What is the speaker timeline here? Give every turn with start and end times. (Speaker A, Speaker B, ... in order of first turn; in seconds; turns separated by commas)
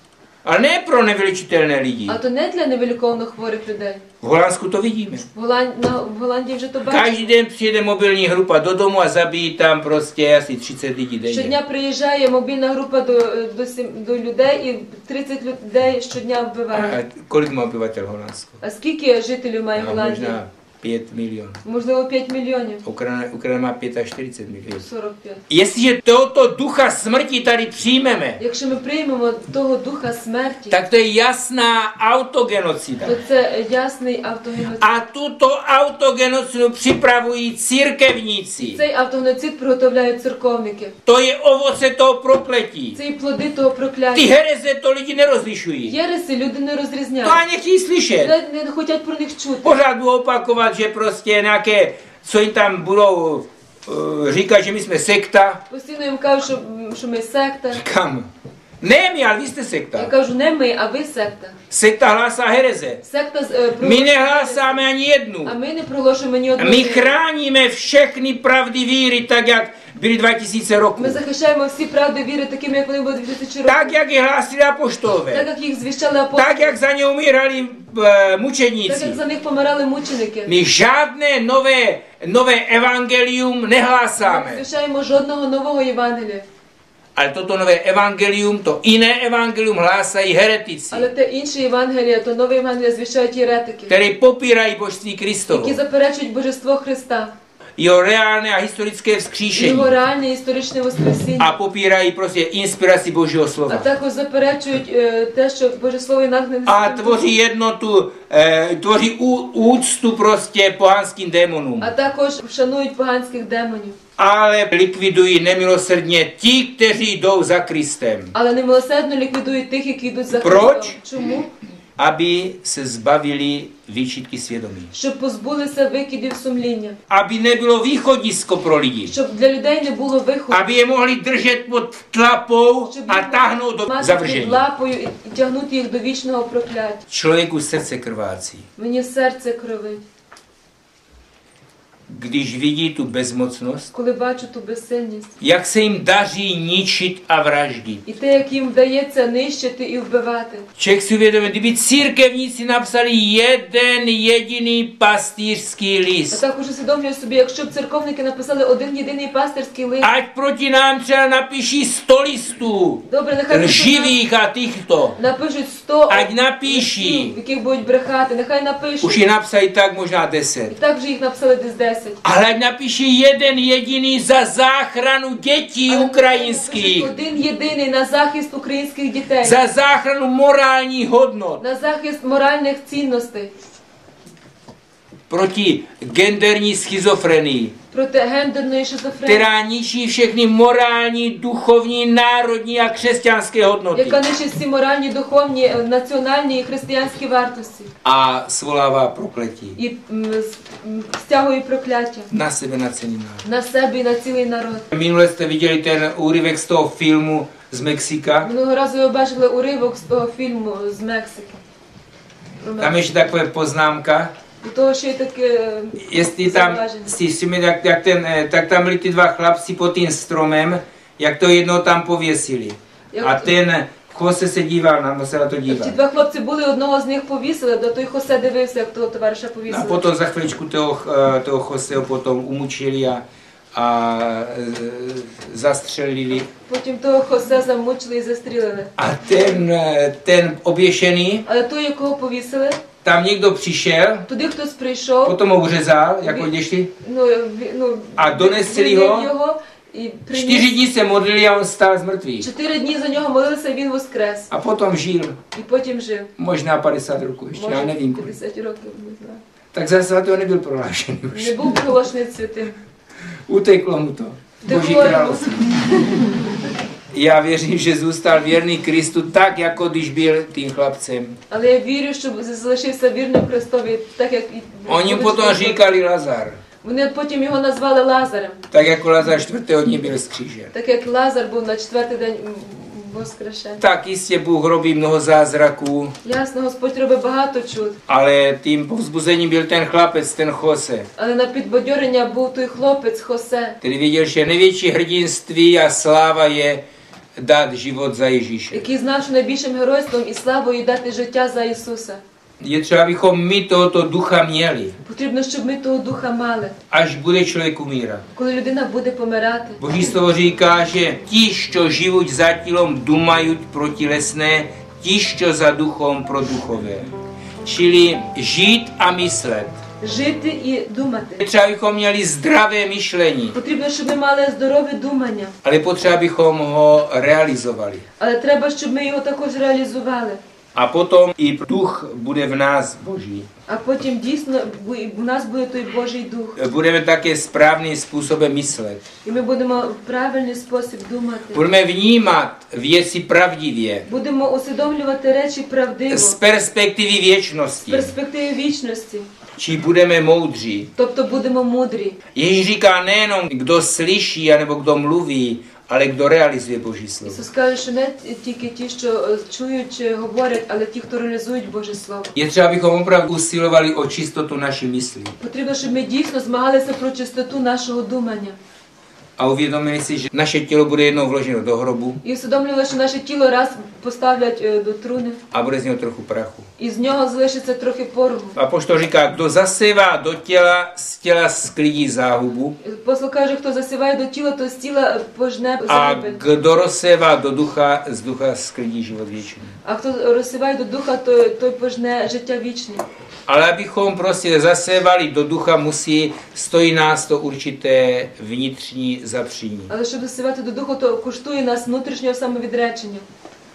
Speaker A: 0.4-2.2, Speaker B: 2.1-4.0, Speaker A: 4.2-5.2, Speaker B: 5.3-7.3, Speaker A: 6.8-11.5, Speaker B: 11.3-17.0, Speaker A: 16.7-18.6, Speaker B: 18.6-20.4, Speaker A: 19.8-21.6, Speaker B: 21.6-22.8, Speaker A: 22.8-24.8, Speaker B: 24.7-25.4, Speaker A: 25.5-28.4, Speaker B: 28.4-30.8, Speaker A: 30.7-33.2, Speaker B: 33.0-34.9, Speaker A: 34.8-38.8, Speaker B: 38.6-40.9, Speaker A: 41.0-43.0, Speaker B: 42.9-44.3, Speaker A: 44.1-46.0, Speaker B: 45.9-47.4, Speaker A: 47.2-48.3, Speaker B: 48.2-49.8, Speaker A: 49.6-55.6, Speaker B: 55.7-57.8, Speaker A: 57.7-58.3, Speaker A: 58.8-60.1, Speaker B: 59.9-61.6, Speaker A: 61.7-63.0, Speaker B: 63.0-64.8, Speaker A: 63.8-65.5, Speaker B: 65.4-67.1, Speaker A: 66.6-71.2, Speaker B: 71.0-74.0, Speaker A: 73.7-75.5, Speaker B: 75.3-76.8, Speaker A: 76.3-79.2, Speaker B: 78.8-80.5, Speaker A: 80.5-84.6, Speaker B: 84.2-86.4, Speaker A: 87.1-91.1, Speaker B: 90.9-93.9, Speaker A: 93.9-95.8, Speaker B: 95.5-97.3, Speaker A: 97.8-99.9, Speaker B: 99.5-101.5, Speaker A: 101.4-103.9, Speaker B: 103.7-107.3, Speaker A: 106.7-111.9, Speaker B: 111.8-114.0, Speaker A: 114.2-118.3, Speaker B: 118.3-121.5, Speaker A: 120.4-121.0, Speaker A: 122.0-124.9, Speaker B: 124.9-127.0, Speaker A: 127.1-129.1, Speaker B: 129.1-130.7, Speaker A: 130.5-134.6, Speaker B: 132.9-137.0, Speaker A: 137.1-138.6, Speaker B: 138.8-140.0, Speaker A: 142.1-143.9, Speaker B: 143.9-145.3, Speaker A: 145.4-148.0, Speaker B: 148.1-150.7, Speaker A: 150.8-156.4, Speaker B: 156.3-160.1, Speaker A: 160.0-165.2, Speaker B: 163.0-164.2, Speaker B: 165.2-169.2, Speaker A: 166.1-167.3, Speaker A: 169.0-170.7, Speaker B: 170.7-172.2, Speaker A: 172.2-177.1, Speaker B: 175.9-179.6, Speaker A: 179.4-181.6, Speaker B: 181.6-183.5, Speaker A: 185.3-187.7, Speaker B: 187.9-189.5, Speaker A: 189.2-194.2, Speaker B: 193.9-197.9, Speaker A: 198.0-199.8, Speaker B: 199.8-202.3, Speaker A: 202.3-203.4, Speaker B: 203.4-204.9, Speaker A: 204.9-208.5, Speaker B: 208.4-211.6, Speaker B: 212.6-213.0, Speaker A: 212.8-214.3, Speaker B: 214.6-217.1, Speaker A: 216.0-226.0, Speaker B: 223.1-223.5, Speaker B: 225.7-230.0, Speaker A: 229.7-233.2, Speaker A: 233.7-236.5, Speaker B: 236.7-238.9, Speaker A: 239.0-241.4, Speaker B: 241.4-242.8, Speaker A: 243.0-244.3, Speaker B: 244.3-245.4, Speaker A: 245.2-246.9, Speaker B: 246.2-246.5, Speaker B: 247.0-250.7, Speaker A: 248.2-249.3, Speaker A: 250.3-252.5, Speaker B: 252.4-254.5, Speaker A: 254.5-255.3, Speaker B: 255.5-256.3, Speaker A: 256.4-258.3, Speaker B: 257.5-259.4, Speaker A: 259.7-261.8, Speaker B: 261.3-262.8, Speaker A: 263.5-265.8, Speaker B: 264.6-266.5, Speaker A: 267.1-271.4, Speaker B: 271.5-275.9, Speaker A: 274.9-276.6, Speaker B: 276.8-278.6, Speaker A: 278.7-280.7, Speaker B: 280.7-283.8, Speaker A: 283.8-286.1, Speaker B: 286.2-288.0, Speaker A: 288.1-291.1, Speaker B: 291.1-293.8, Speaker A: 293.8-296.8, Speaker A: 297.4-298.9, Speaker B: 298.7-302.2, Speaker A: 302.6-304.9, Speaker B: 305.0-306.8, Speaker A: 306.9-308.2, Speaker B: 308.3-309.8, Speaker A: 309.8-317.1, Speaker A: 317.6-319.8, Speaker B: 320.0-321.4, Speaker A: 321.4-323.6, Speaker B: 323.5-325.5, Speaker A: 325.6-328.0, Speaker B: 328.2-330.4, Speaker A: 330.7-333.5, Speaker B: 333.7-336.6, Speaker A: 336.6-339.0, Speaker B: 339.2-341.6, Speaker A: 341.5-344.1, Speaker B: 344.1-346.4, Speaker A: 346.1-348.1, Speaker B: 347.9-349.3, Speaker A: 349.6-350.9, Speaker B: 350.9-352.2, Speaker A: 352.3-357.4, Speaker B: 357.2-362.3, Speaker A: 362.3-365.3, Speaker B: 365.4-368.6, Speaker A: 369.4-372.2, Speaker B: 372.2-375.4, Speaker A: 375.5-376.6, Speaker B: 376.8-378.6, Speaker A: 378.6-382.8, Speaker B: 382.8-386.4, Speaker A: 385.9-389.7, Speaker B: 389.8-393.0, Speaker A: 393.5-399.9, Speaker B: 399.9-403.2